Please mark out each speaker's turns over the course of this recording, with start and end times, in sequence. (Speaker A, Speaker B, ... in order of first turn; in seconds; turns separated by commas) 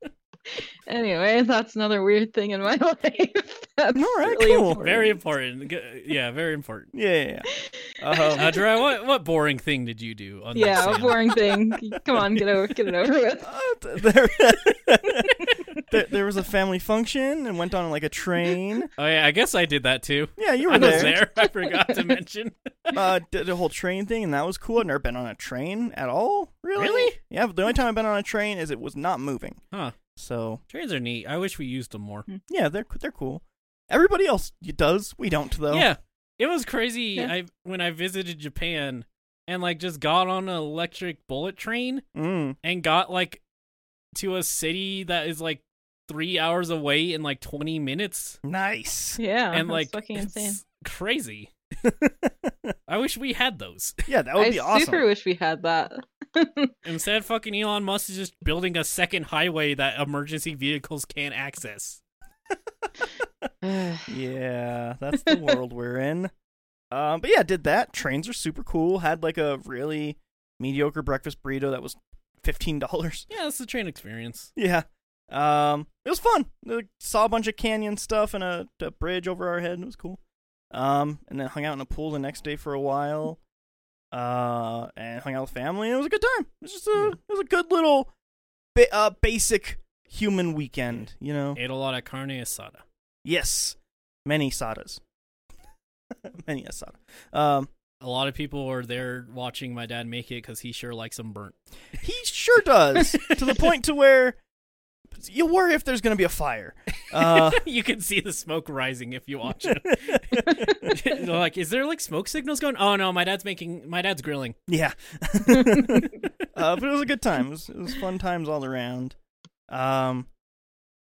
Speaker A: 0.8-5.2, Speaker B: 3.9-4.8, Speaker C: 4.7-6.9, Speaker B: 6.9-7.5, Speaker A: 7.5-8.6, Speaker B: 8.0-8.5, Speaker C: 8.3-11.5, Speaker A: 10.5-13.5, Speaker B: 13.4-18.9, Speaker C: 15.4-15.8, Speaker C: 19.0-22.5, Speaker B: 20.4-21.1, Speaker A: 20.7-22.1, Speaker B: 22.9-29.6, Speaker C: 26.8-27.2, Speaker C: 29.7-30.0, Speaker B: 30.1-30.6, Speaker C: 30.7-32.3, Speaker B: 32.5-35.9, Speaker C: 35.7-42.0, Speaker B: 42.1-42.5, Speaker C: 42.6-43.4, Speaker C: 44.1-48.4, Speaker B: 48.4-49.2, Speaker A: 49.2-50.6, Speaker C: 49.5-51.5, Speaker B: 51.8-52.7, Speaker C: 52.9-54.0, Speaker B: 54.1-55.0, Speaker A: 54.4-56.7, Speaker C: 56.8-62.0, Speaker A: 63.6-64.1, Speaker B: 64.1-66.3, Speaker B: 66.9-73.3, Speaker C: 73.3-74.5, Speaker B: 74.5-80.2, Speaker B: 80.7-83.4, Speaker B: 84.1-88.1, Speaker B: 88.7-91.6, Speaker C: 91.5-92.8, Speaker B: 93.2-95.0, Speaker B: 96.1-97.7, Speaker C: 98.0-101.6, Speaker B: 102.0-104.4, Speaker C: 103.0-103.6, Speaker B: 105.1-107.6, Speaker C: 107.1-114.6, Speaker B: 109.6-111.0, Speaker A: 110.5-110.9, Speaker B: 114.7-119.2, Speaker A: 115.6-115.9, Speaker B: 119.7-120.3